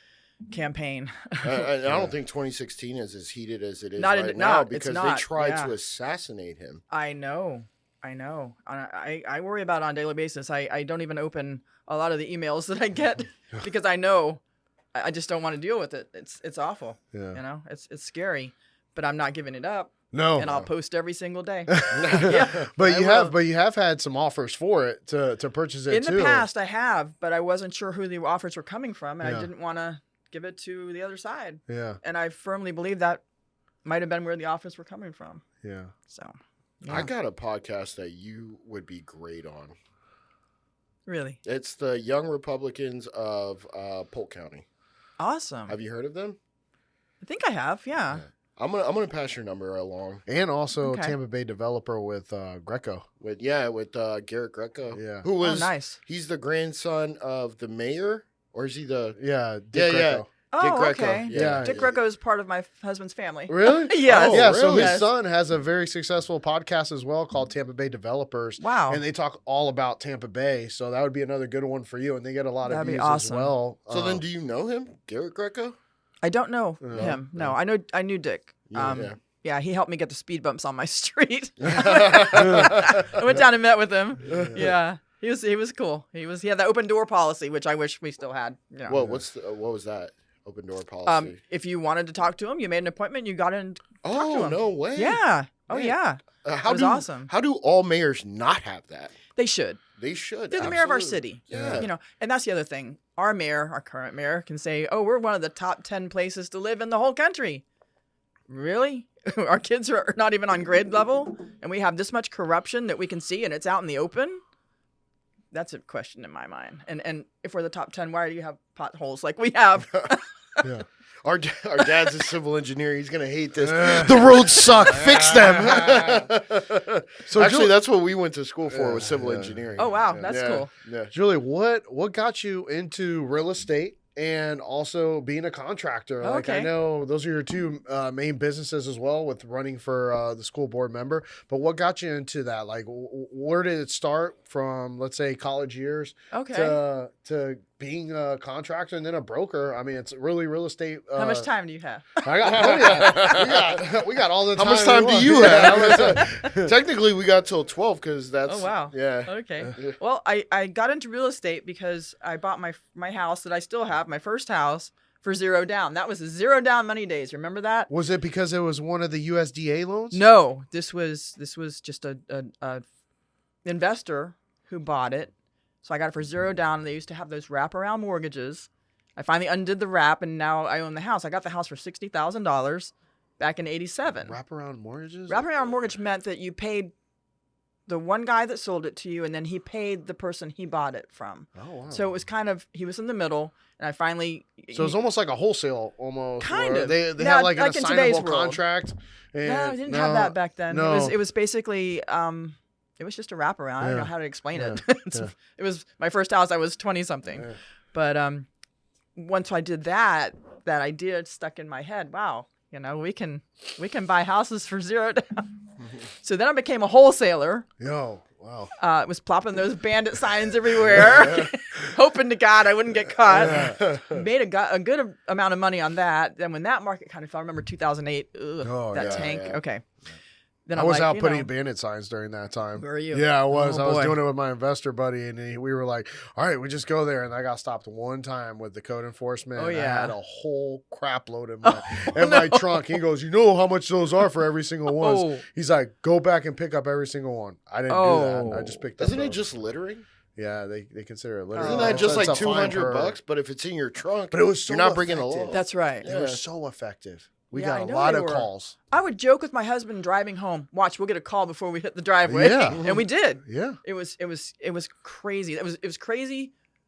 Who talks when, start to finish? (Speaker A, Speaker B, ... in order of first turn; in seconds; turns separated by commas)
Speaker A: 0.5-1.7, Speaker B: 1.4-6.8, Speaker C: 1.9-2.1, Speaker A: 4.0-5.7, Speaker A: 6.9-14.4, Speaker A: 14.9-23.3, Speaker C: 17.1-17.4, Speaker C: 20.1-20.7, Speaker C: 21.7-26.5, Speaker B: 21.9-22.6, Speaker A: 25.9-33.2, Speaker C: 29.2-29.5, Speaker C: 31.7-32.0, Speaker A: 33.8-35.4, Speaker C: 35.6-35.9, Speaker A: 36.1-37.1, Speaker B: 36.9-39.7, Speaker A: 41.0-41.4, Speaker B: 41.4-44.6, Speaker A: 45.2-45.7, Speaker B: 45.7-46.4, Speaker A: 47.2-48.2, Speaker B: 48.1-50.2, Speaker C: 50.2-53.0, Speaker A: 50.8-51.1, Speaker B: 53.2-59.2, Speaker C: 54.9-55.3, Speaker A: 55.4-56.0, Speaker C: 59.2-60.3, Speaker B: 59.7-62.0, Speaker A: 60.5-65.1, Speaker C: 61.3-61.9, Speaker C: 63.5-74.2, Speaker B: 64.0-65.0, Speaker A: 68.6-69.0, Speaker A: 72.7-73.5, Speaker B: 73.9-75.8, Speaker A: 76.2-89.0, Speaker C: 76.8-77.5, Speaker B: 76.9-77.2, Speaker B: 78.7-79.1, Speaker C: 78.8-79.1, Speaker B: 81.6-82.8, Speaker C: 82.4-82.7, Speaker C: 84.2-84.7, Speaker B: 84.3-84.7, Speaker B: 88.9-91.4, Speaker C: 88.9-89.2, Speaker A: 91.0-97.3, Speaker B: 94.0-99.2, Speaker A: 99.3-99.8, Speaker B: 100.0-101.9, Speaker A: 100.5-107.6, Speaker C: 101.5-101.9, Speaker A: 108.5-114.4, Speaker A: 115.5-120.7, Speaker B: 121.2-131.1, Speaker C: 123.6-126.3, Speaker C: 127.2-127.7, Speaker C: 128.7-130.6, Speaker A: 129.8-130.7, Speaker C: 131.1-151.5, Speaker A: 136.2-136.7, Speaker A: 146.3-146.8, Speaker A: 151.1-153.4, Speaker C: 152.2-156.7, Speaker B: 152.5-153.9, Speaker B: 154.5-160.0, Speaker A: 155.7-156.4, Speaker A: 158.4-167.9, Speaker C: 167.9-170.2, Speaker A: 170.1-172.8, Speaker A: 173.6-175.3, Speaker A: 175.8-184.4, Speaker C: 184.2-185.5, Speaker A: 185.3-186.9, Speaker A: 187.9-194.9, Speaker C: 191.5-192.1, Speaker C: 194.7-201.2, Speaker A: 196.4-198.6, Speaker A: 199.4-208.5, Speaker C: 203.8-205.3, Speaker A: 209.2-215.6, Speaker A: 216.2-217.7, Speaker C: 217.8-218.7, Speaker A: 218.8-229.8, Speaker C: 220.7-221.9, Speaker C: 223.2-224.2, Speaker C: 228.6-229.3, Speaker B: 228.9-229.6, Speaker A: 230.7-231.5, Speaker C: 230.7-249.4, Speaker A: 232.8-234.2, Speaker A: 239.5-240.2, Speaker A: 241.6-243.0, Speaker A: 244.9-245.4, Speaker A: 247.9-248.9, Speaker B: 249.0-250.0, Speaker C: 250.3-253.2, Speaker A: 251.5-252.7, Speaker B: 251.6-256.4, Speaker C: 254.3-258.8, Speaker A: 255.5-256.1, Speaker A: 257.5-266.5, Speaker C: 262.2-263.8